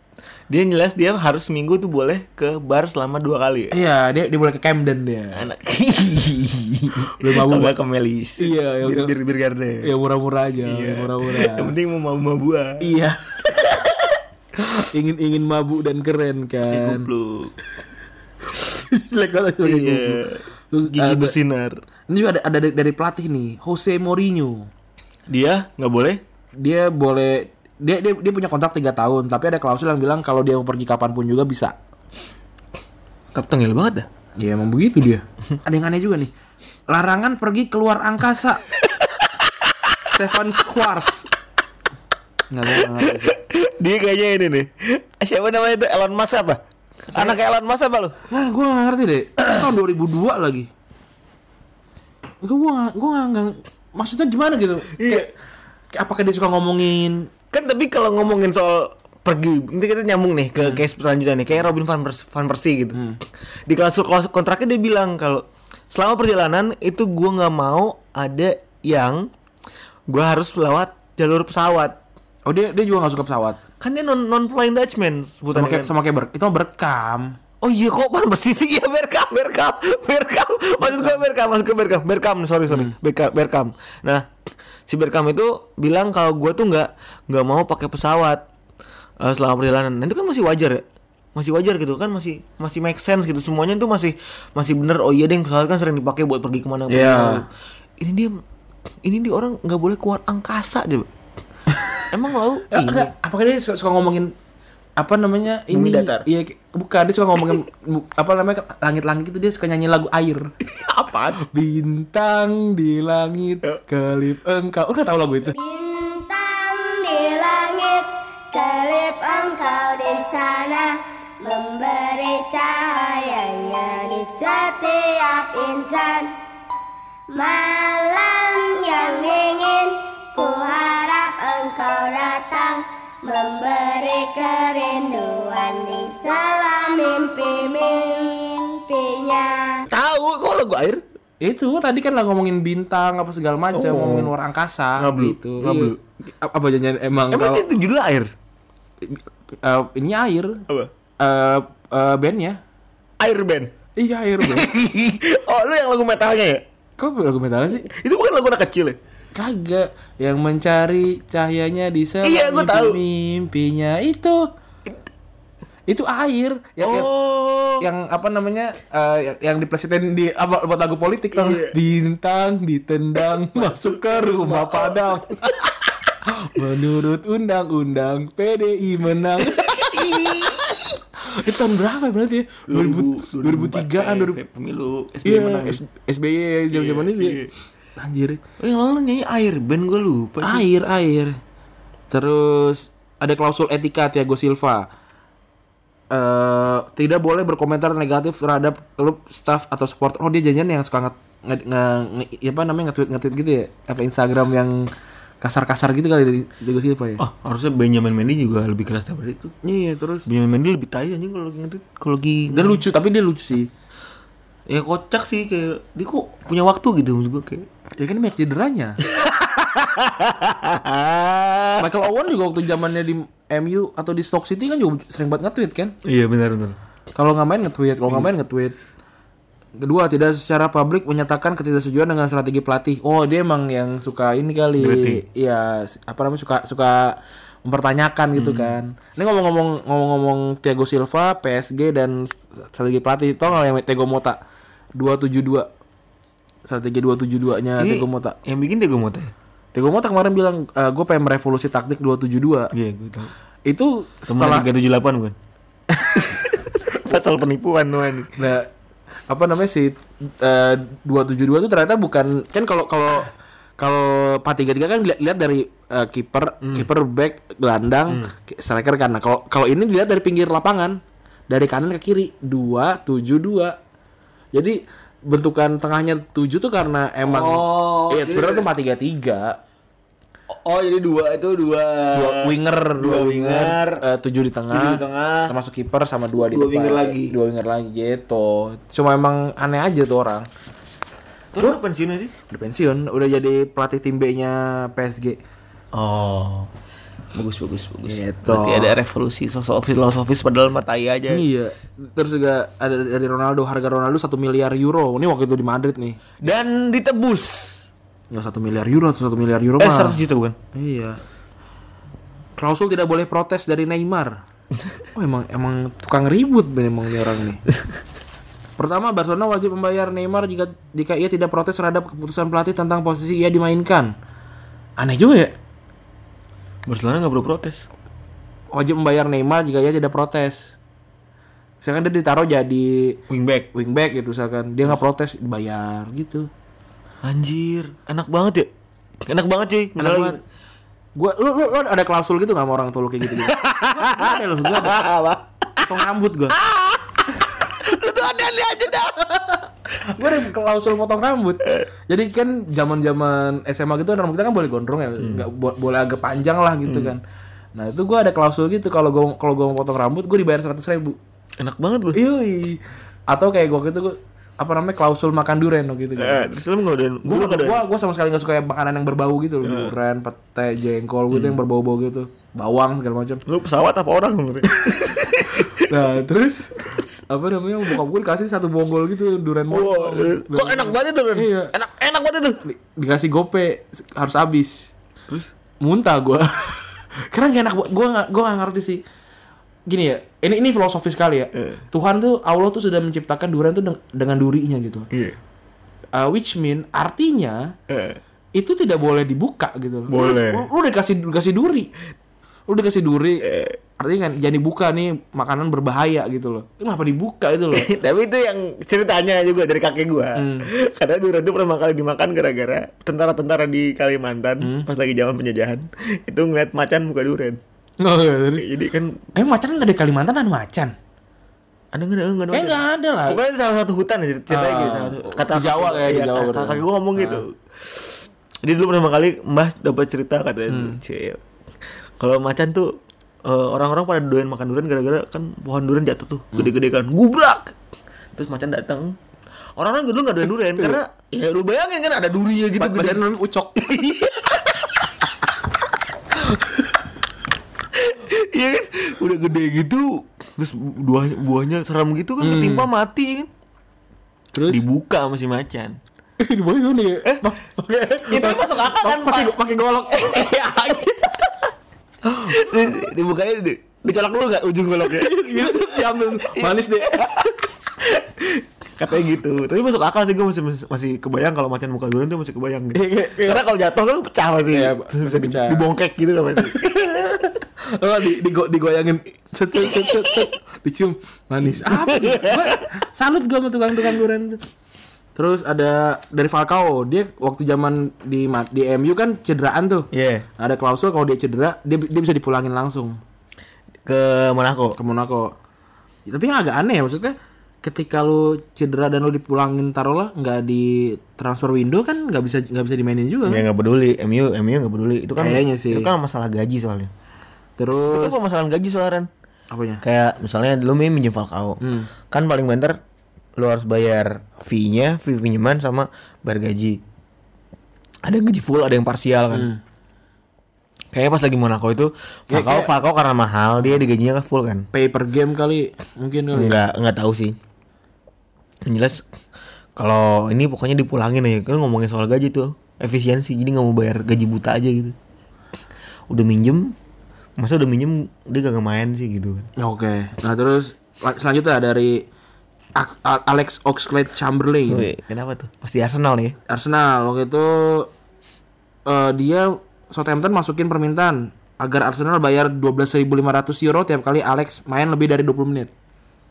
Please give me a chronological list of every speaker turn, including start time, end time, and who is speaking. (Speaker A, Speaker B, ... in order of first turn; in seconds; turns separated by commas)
Speaker A: 0.5-3.7, Speaker B: 3.7-5.5, Speaker A: 5.3-9.9, Speaker B: 7.1-7.7, Speaker B: 8.4-9.1, Speaker B: 9.8-11.7, Speaker A: 10.6-12.9, Speaker B: 12.8-13.8, Speaker B: 14.6-17.1, Speaker A: 16.7-17.5, Speaker B: 18.5-21.4, Speaker A: 19.6-21.8, Speaker B: 22.1-24.7, Speaker A: 25.3-26.2, Speaker B: 26.6-31.7, Speaker A: 33.3-34.1, Speaker B: 34.4-36.3, Speaker B: 36.9-38.6, Speaker A: 38.9-39.9, Speaker B: 40.0-41.3, Speaker B: 42.5-43.3, Speaker A: 42.7-48.1, Speaker B: 48.3-50.7, Speaker B: 52.4-55.3, Speaker A: 55.0-55.3, Speaker B: 55.9-57.3, Speaker A: 57.5-63.0, Speaker B: 62.9-63.2, Speaker A: 63.7-69.3, Speaker A: 70.1-72.0, Speaker B: 72.5-73.6, Speaker A: 73.8-75.9, Speaker B: 75.5-77.4, Speaker A: 77.6-84.2, Speaker B: 80.8-81.2, Speaker B: 82.7-82.9, Speaker A: 84.9-88.5, Speaker A: 89.2-90.8, Speaker A: 91.3-97.5, Speaker B: 96.9-97.4, Speaker A: 98.0-98.4, Speaker A: 99.0-101.1, Speaker A: 102.1-103.1, Speaker B: 102.7-104.3, Speaker B: 105.0-110.5, Speaker A: 105.7-106.3, Speaker A: 110.6-111.4, Speaker B: 111.4-115.5, Speaker C: 115.5-126.3, Speaker C: 127.3-139.8, Speaker A: 139.9-141.0, Speaker B: 141.4-147.6, Speaker A: 143.7-144.3, Speaker A: 145.0-146.0, Speaker A: 147.3-148.3, Speaker B: 149.0-150.6, Speaker B: 151.2-152.6, Speaker A: 153.2-153.7, Speaker B: 154.0-154.7, Speaker A: 154.4-156.6, Speaker B: 157.0-157.9, Speaker A: 157.8-159.0, Speaker B: 159.3-164.5, Speaker A: 162.2-163.0, Speaker B: 165.9-167.1, Speaker A: 166.8-167.9, Speaker B: 167.8-175.4, Speaker A: 171.3-171.8, Speaker A: 173.4-175.7, Speaker B: 176.2-180.1, Speaker A: 179.4-181.0, Speaker B: 181.2-184.4, Speaker A: 182.7-185.8, Speaker B: 185.2-187.4, Speaker A: 186.7-187.5, Speaker B: 188.0-188.4, Speaker A: 188.6-190.7, Speaker B: 190.4-191.4, Speaker B: 192.1-194.9, Speaker B: 196.1-204.9, Speaker B: 205.4-207.2, Speaker A: 207.2-209.5, Speaker B: 209.6-210.3, Speaker A: 210.2-212.8, Speaker B: 212.5-213.7, Speaker A: 214.7-217.7, Speaker B: 218.0-219.0, Speaker A: 219.1-221.8, Speaker B: 221.8-225.9, Speaker A: 226.0-226.8, Speaker B: 227.1-228.7, Speaker B: 229.8-244.4, Speaker A: 234.8-235.2, Speaker A: 238.3-238.8, Speaker B: 244.9-245.7, Speaker B: 246.7-248.4, Speaker A: 247.8-249.3, Speaker B: 249.7-252.7, Speaker A: 252.7-253.3, Speaker B: 253.7-254.7, Speaker A: 254.3-255.3, Speaker A: 255.9-258.3, Speaker B: 258.4-258.7, Speaker B: 259.3-271.0, Speaker A: 266.6-266.9, Speaker B: 271.5-273.8, Speaker B: 274.5-279.6, Speaker A: 277.2-278.7, Speaker A: 280.5-284.0, Speaker B: 282.1-290.5, Speaker A: 284.7-285.5, Speaker A: 286.4-287.4, Speaker A: 291.5-292.3, Speaker B: 292.5-295.4, Speaker A: 295.9-296.7, Speaker A: 297.3-301.4, Speaker B: 298.1-299.0, Speaker B: 301.3-306.4, Speaker A: 306.4-307.9, Speaker B: 308.3-310.2, Speaker A: 309.8-310.6, Speaker B: 310.7-311.2, Speaker B: 312.6-314.4, Speaker B: 315.1-317.6, Speaker B: 318.8-324.1, Speaker B: 325.0-325.5, Speaker A: 326.9-327.9, Speaker B: 328.7-330.8, Speaker B: 331.8-333.2, Speaker A: 333.3-333.7, Speaker B: 333.7-336.5, Speaker A: 337.2-338.7, Speaker A: 339.2-340.4, Speaker B: 339.9-340.4, Speaker B: 341.1-345.0, Speaker A: 343.2-345.9, Speaker B: 345.8-346.6, Speaker A: 346.5-349.2, Speaker B: 349.2-357.2, Speaker A: 355.2-355.4, Speaker A: 356.9-357.1, Speaker B: 357.8-361.2, Speaker A: 361.6-362.2, Speaker B: 362.1-366.4, Speaker A: 366.2-367.8, Speaker B: 367.2-373.4, Speaker A: 369.6-369.9, Speaker A: 371.3-371.6, Speaker A: 373.4-375.9, Speaker B: 374.7-381.7, Speaker A: 379.7-382.6, Speaker B: 382.6-384.9, Speaker B: 385.8-389.0, Speaker B: 389.9-395.1, Speaker A: 395.1-395.4, Speaker B: 396.1-397.7, Speaker A: 397.9-398.2, Speaker B: 398.5-401.9, Speaker A: 400.1-400.6, Speaker B: 402.7-403.4, Speaker A: 403.4-403.8, Speaker B: 404.0-407.9, Speaker A: 407.7-417.6, Speaker B: 410.4-410.7, Speaker B: 414.6-414.9, Speaker B: 418.0-418.6, Speaker A: 418.6-419.2, Speaker B: 419.4-420.9, Speaker A: 421.9-431.4, Speaker B: 422.5-423.4, Speaker B: 424.5-427.4, Speaker B: 430.7-431.0, Speaker A: 432.2-432.9, Speaker A: 433.4-437.8, Speaker A: 438.3-439.1, Speaker A: 439.8-443.2, Speaker B: 442.8-444.2, Speaker A: 443.8-445.1, Speaker A: 447.9-453.5, Speaker B: 452.4-452.9, Speaker B: 454.5-454.8, Speaker A: 454.7-456.0, Speaker B: 456.4-461.5, Speaker A: 458.2-460.5, Speaker B: 462.3-462.6, Speaker A: 462.4-476.9, Speaker B: 465.1-467.5, Speaker B: 472.9-473.6, Speaker B: 474.7-475.8, Speaker B: 476.6-484.6, Speaker A: 479.8-480.4, Speaker A: 481.8-482.8, Speaker B: 485.4-493.2, Speaker A: 490.1-490.4, Speaker A: 494.1-495.0, Speaker B: 495.0-495.5, Speaker B: 496.3-503.6, Speaker A: 503.5-507.1, Speaker B: 505.4-506.1, Speaker B: 507.8-508.4, Speaker A: 508.1-509.3, Speaker B: 509.7-510.0, Speaker A: 510.0-513.0, Speaker B: 511.8-512.1, Speaker A: 513.6-517.0, Speaker A: 518.2-519.7, Speaker B: 519.5-519.8, Speaker A: 521.1-524.9, Speaker B: 522.5-522.9, Speaker B: 524.9-526.8, Speaker A: 526.5-527.6, Speaker A: 528.8-529.2, Speaker A: 530.0-535.1, Speaker A: 536.3-536.9, Speaker A: 537.6-539.7, Speaker B: 539.8-542.2, Speaker B: 543.0-545.1, Speaker A: 544.9-546.5, Speaker B: 546.7-548.1, Speaker B: 549.0-555.9